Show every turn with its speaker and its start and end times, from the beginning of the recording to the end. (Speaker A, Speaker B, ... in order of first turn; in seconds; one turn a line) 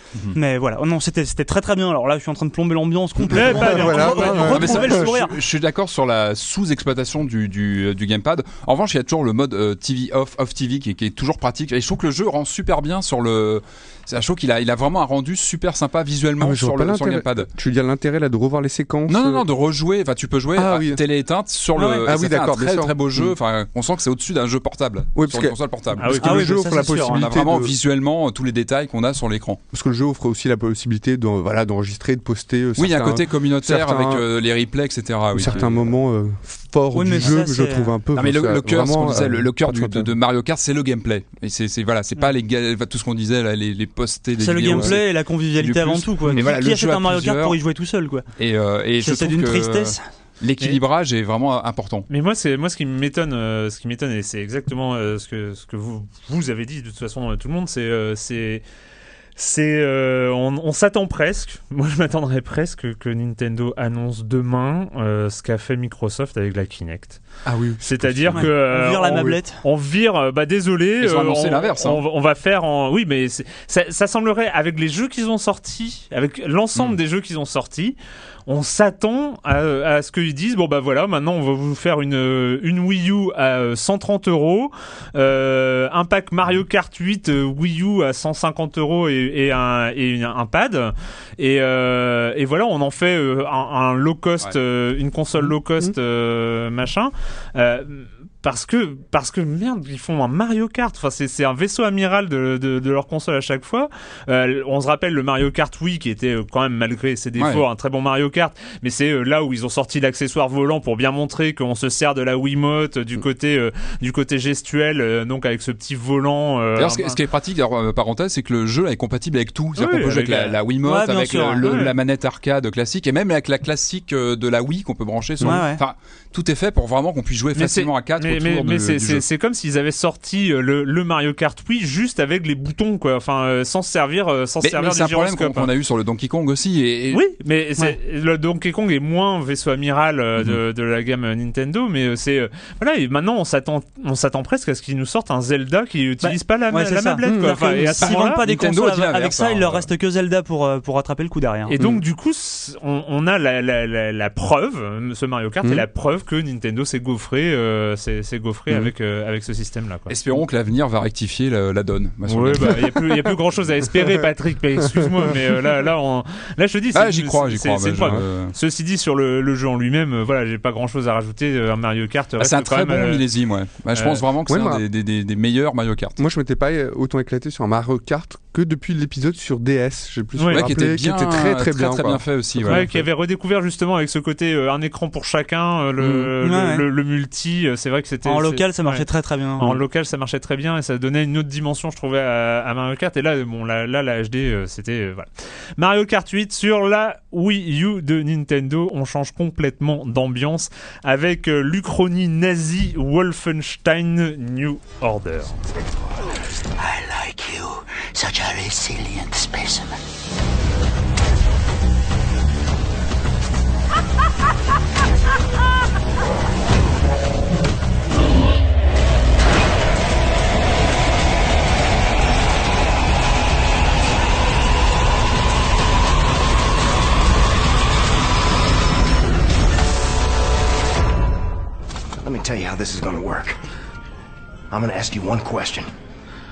Speaker A: 0.3-5.3
Speaker B: 3.2-5.1
Speaker C: 3.3-4.8
Speaker D: 4.2-17.5
Speaker B: 16.4-19.4
Speaker D: 19.1-29.6
Speaker B: 20.5-21.0
Speaker A: 21.8-22.1
Speaker B: 21.9-23.3
Speaker B: 25.1-27.7
Speaker C: 26.0-26.2
Speaker A: 26.0-27.5
Speaker B: 29.7-34.2
Speaker D: 32.8-35.9
Speaker B: 35.3-40.1
Speaker A: 36.9-37.9
Speaker D: 38.1-47.6
Speaker A: 44.4-48.2
Speaker B: 44.6-45.0
Speaker B: 46.2-46.5
Speaker D: 48.4-52.1
Speaker A: 49.0-50.0
Speaker C: 52.1-58.6
Speaker C: 59.4-67.2
Speaker B: 67.4-68.5
Speaker C: 67.8-78.0
Speaker A: 68.3-69.6
Speaker D: 71.0-72.0
Speaker C: 78.5-117.2
Speaker D: 107.4-107.6
Speaker D: 116.8-129.2
Speaker C: 119.8-120.6
Speaker A: 120.8-121.8
Speaker C: 121.6-121.9
Speaker A: 125.4-125.8
Speaker C: 127.5-135.7
Speaker D: 134.6-137.2
Speaker C: 137.1-148.4
Speaker A: 146.2-151.7
Speaker B: 147.2-147.7
Speaker D: 148.0-149.9
Speaker C: 151.6-160.1
Speaker D: 160.1-162.8
Speaker C: 162.2-173.2
Speaker D: 166.9-168.5
Speaker D: 172.4-176.2
Speaker C: 173.9-174.2
Speaker B: 174.5-174.8
Speaker B: 176.2-182.9
Speaker C: 180.3-180.6
Speaker D: 180.5-183.0
Speaker C: 182.7-189.1
Speaker B: 186.0-186.3
Speaker A: 186.4-186.8
Speaker A: 188.2-189.8
Speaker C: 189.6-205.6
Speaker E: 206.8-209.9
Speaker F: 232.2-233.6
Speaker F: 234.7-235.9